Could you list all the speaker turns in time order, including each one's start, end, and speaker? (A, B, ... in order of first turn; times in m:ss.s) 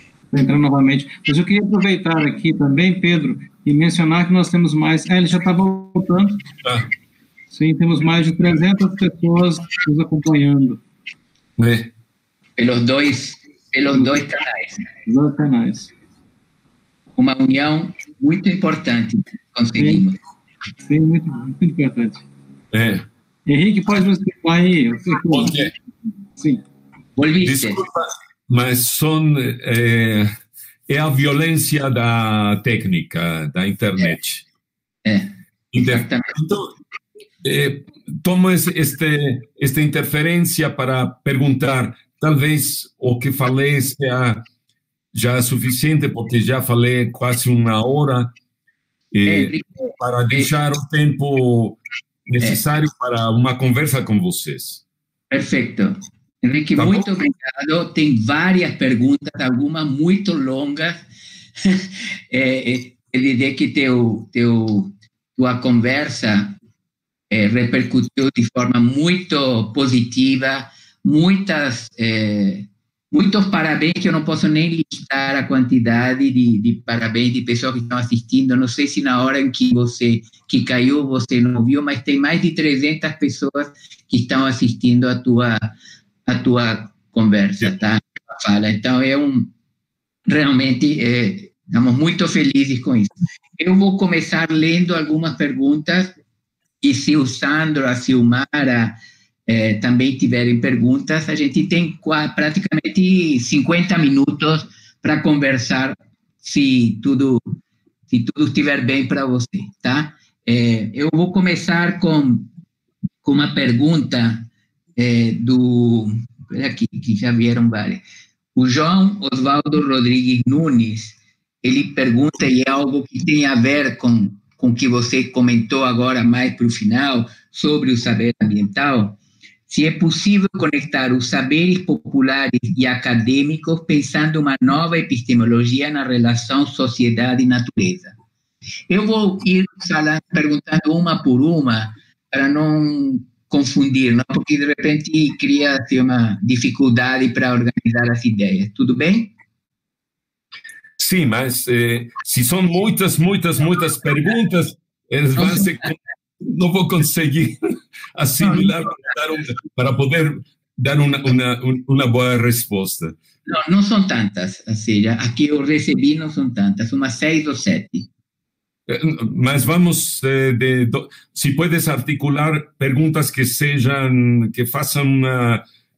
0:00.3-0:06.4 A
0:07.5-0:10.8 A
0:11.6-0:11.9 B
0:12.6-0:14.8 C
0:13.9-0:14.2 A
0:15.0-0:15.9 A
0:17.2-0:20.2 C
0:19.8-0:20.0 A
0:20.9-0:22.2 A
0:22.7-0:23.1 B
0:23.4-0:25.7 A
0:25.3-0:25.7 B
0:27.2-0:27.8 C
0:27.4-0:30.3 B
0:30.9-0:34.4 B
0:35.0-0:35.3 C
0:35.7-0:36.7 B
0:35.8-0:36.3 C
0:37.4-0:44.4 B
0:45.1-0:48.3 B
0:49.1-0:54.8 B
0:49.2-0:50.5 C
0:55.3-1:01.0 C
0:56.8-0:57.1 B
1:01.6-1:06.6 C
1:07.3-1:25.7 C
1:26.3-1:29.5 C
1:30.2-1:36.2 C
1:36.8-1:39.0 C
1:39.5-1:47.6 C
1:48.1-1:52.5 C
1:53.2-1:58.0 C
1:58.6-2:18.1 C
2:18.9-2:29.3 C
2:31.0-2:37.6 B
2:35.4-2:35.7 C
2:38.1-2:43.2 B
2:38.4-2:38.7 C
2:43.4-2:48.1 C
2:48.9-2:55.6 B